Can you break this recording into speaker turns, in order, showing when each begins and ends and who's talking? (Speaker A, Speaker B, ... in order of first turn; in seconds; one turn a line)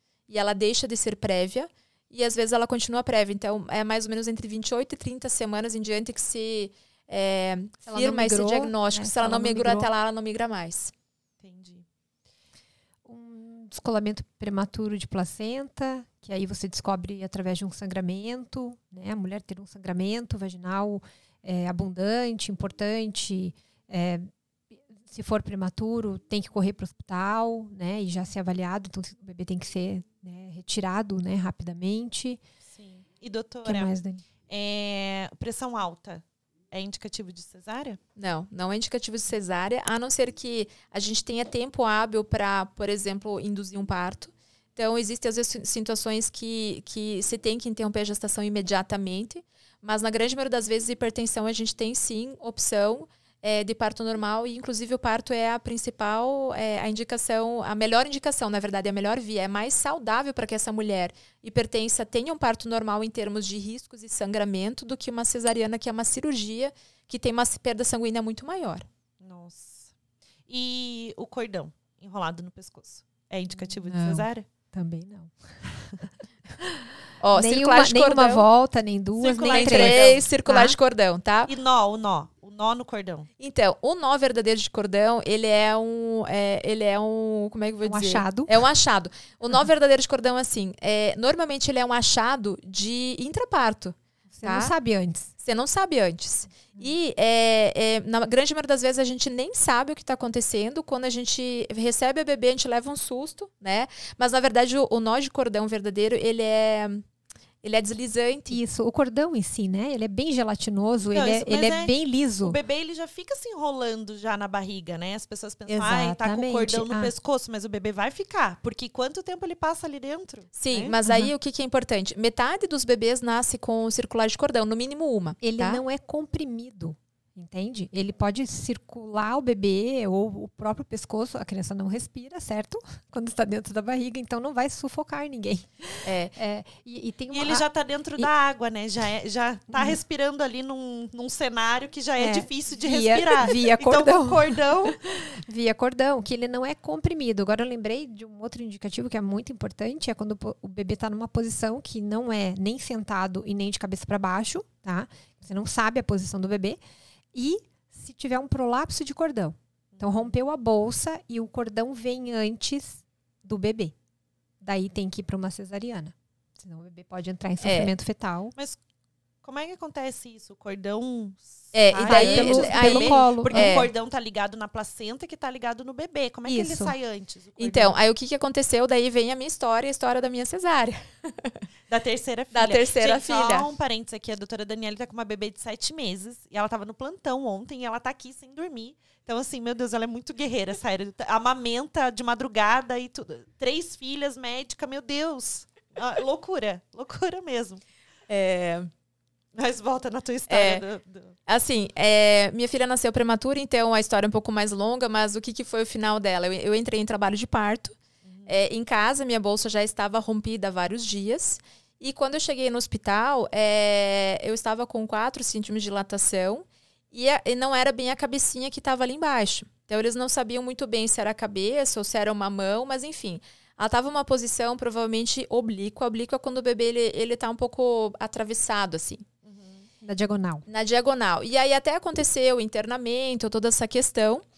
Speaker A: 0.3-10.9
Speaker B: 7.8-9.9
Speaker C: 11.4-11.8
Speaker B: 13.0-24.3
Speaker B: 25.0-32.4
Speaker C: 32.7-33.9
Speaker B: 33.6-34.2
Speaker C: 34.5-38.0
Speaker A: 38.2-68.8
Speaker C: 69.2-69.9
Speaker C: 70.5-74.5
Speaker B: 73.7-75.3
Speaker A: 77.2-78.5
Speaker B: 77.3-80.8
Speaker C: 79.2-80.3
Speaker A: 79.5-81.5
Speaker C: 81.5-83.3
Speaker A: 83.4-94.7
Speaker B: 87.8-88.5
Speaker B: 94.3-95.3
Speaker A: 95.4-107.0
Speaker A: 107.6-108.6
Speaker B: 108.5-112.6
Speaker C: 111.1-120.9
Speaker B: 115.7-117.1
Speaker A: 120.5-125.8
Speaker B: 121.0-121.3
Speaker B: 125.4-137.7
Speaker A: 136.0-136.3
Speaker C: 137.3-145.0
Speaker B: 142.2-156.8
Speaker B: 157.3-163.9
Speaker C: 159.9-160.3
Speaker B: 164.6-168.5
Speaker A: 167.6-167.9
Speaker C: 168.5-168.8
Speaker C: 169.4-177.9
Speaker A: 171.7-173.9
Speaker B: 172.1-173.9
Speaker B: 176.5-176.9
Speaker A: 177.6-181.6
Speaker C: 181.9-197.8
Speaker A: 182.5-183.7
Speaker A: 198.3-198.9
Speaker C: 199.6-201.3
Speaker A: 200.5-200.8
Speaker A: 201.5-207.9
Speaker C: 208.2-208.6
Speaker A: 208.5-229.2
Speaker C: 229.4-229.9
Speaker B: 230.0-230.6
Speaker A: 230.7-234.4